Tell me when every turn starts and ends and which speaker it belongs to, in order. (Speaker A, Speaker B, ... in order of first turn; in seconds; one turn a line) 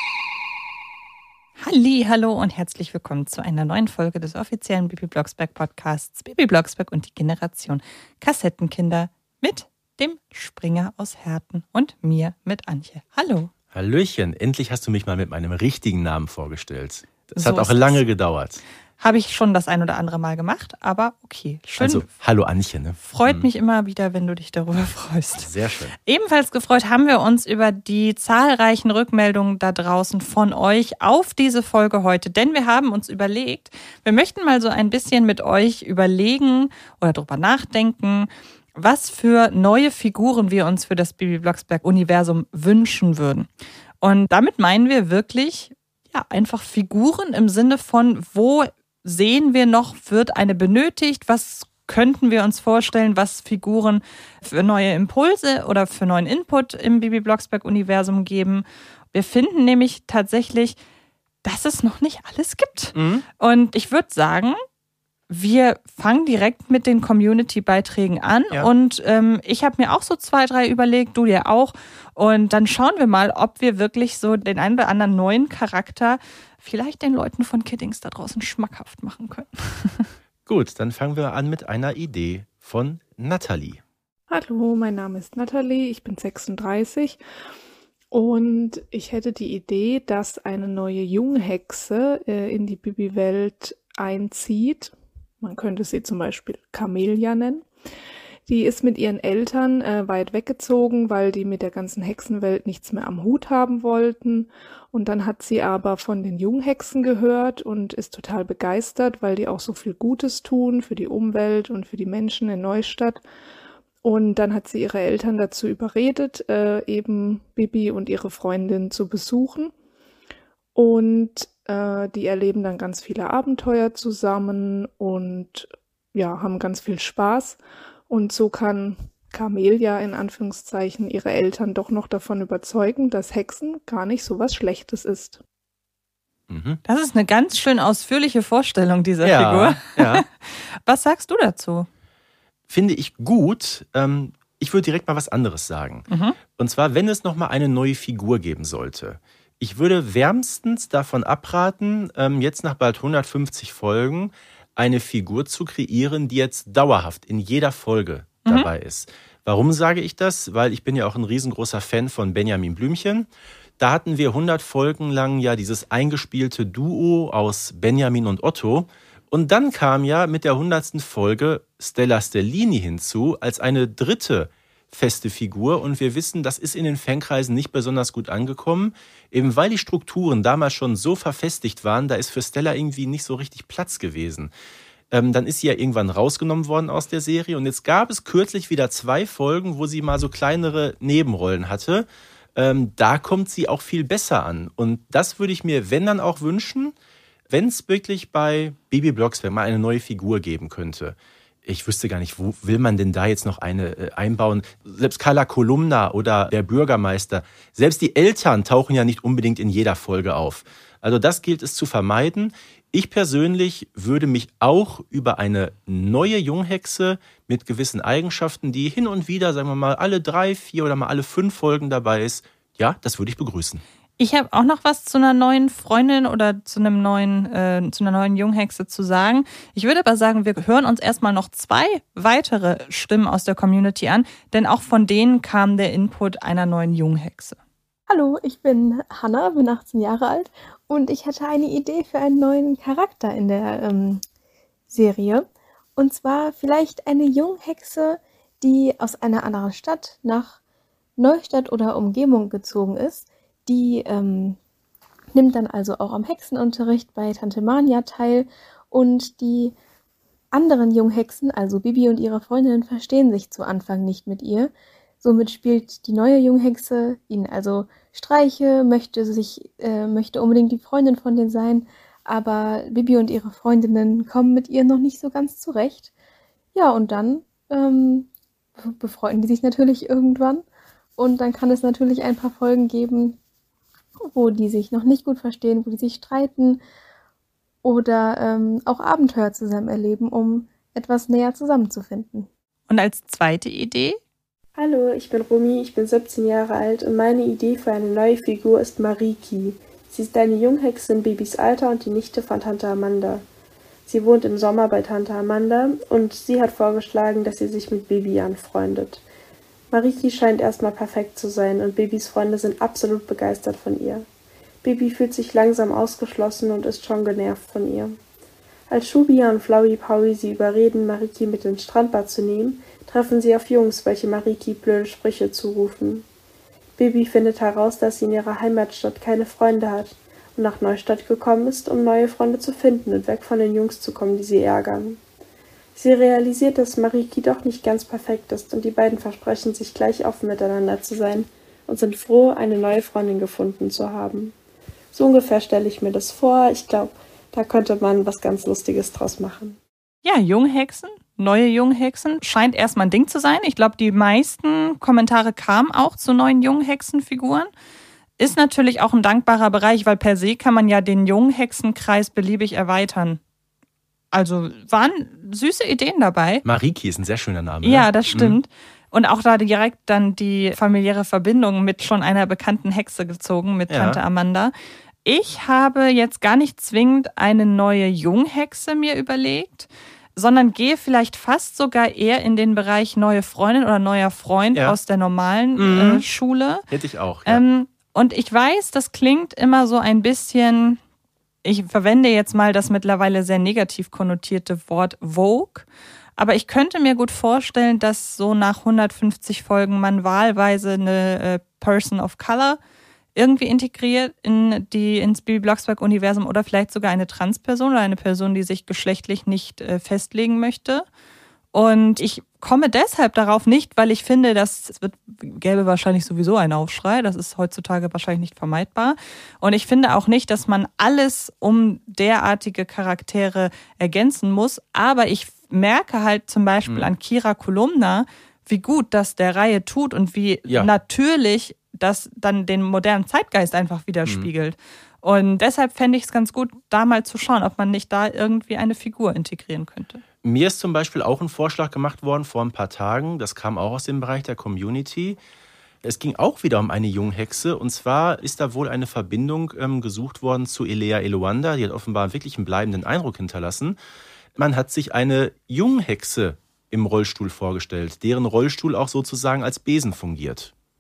Speaker A: 1.6-13.5
Speaker B: 13.7-18.6
Speaker A: 17.4-18.0
Speaker A: 19.0-22.1
Speaker B: 21.8-23.5
Speaker A: 23.0-25.5
Speaker B: 25.4-25.9
Speaker A: 26.1-43.5
Speaker A: 44.0-60.8
Speaker A: 61.4-64.6
Speaker B: 63.0-63.3
Speaker A: 65.3-80.1
Speaker B: 80.5-83.8
Speaker C: 84.3-87.2
Speaker C: 88.1-97.7
Speaker C: 98.5-113.2
Speaker C: 114.0-119.7
Speaker C: 120.8-135.4
Speaker B: 136.5-136.8
Speaker A: 136.9-141.9
Speaker B: 139.2-140.2
Speaker B: 142.7-163.3
Speaker A: 146.1-146.4
Speaker B: 163.8-184.5
Speaker B: 185.1-196.9
Speaker B: 197.5-223.8
Speaker A: 224.2-237.6
Speaker D: 238.1-244.2
Speaker D: 244.9-250.6
Speaker D: 251.2-254.6
Speaker D: 255.3-259.8
Speaker D: 260.5-276.1
Speaker D: 276.7-278.3
Speaker D: 278.8-280.6
Speaker D: 281.2-283.4
Speaker D: 284.2-286.8
Speaker D: 287.8-292.5
Speaker A: 292.9-294.2
Speaker E: 294.8-303.4
Speaker E: 304.1-309.2
Speaker E: 309.9-314.3
Speaker E: 314.8-318.2
Speaker E: 318.9-326.2
Speaker E: 327.0-335.2
Speaker E: 336.0-344.6
Speaker E: 345.1-349.8
Speaker A: 350.2-357.7
Speaker A: 358.4-363.4
Speaker A: 364.3-366.6
Speaker B: 366.6-368.6
Speaker A: 367.8-374.7
Speaker B: 373.9-374.2
Speaker A: 375.2-386.8
Speaker B: 385.8-386.3
Speaker B: 386.9-387.6
Speaker A: 387.5-391.0
Speaker A: 391.6-395.9
Speaker A: 396.4-402.8
Speaker A: 403.4-411.1
Speaker A: 411.7-440.2
Speaker B: 440.4-445.4
Speaker B: 446.0-454.0
Speaker B: 454.6-460.7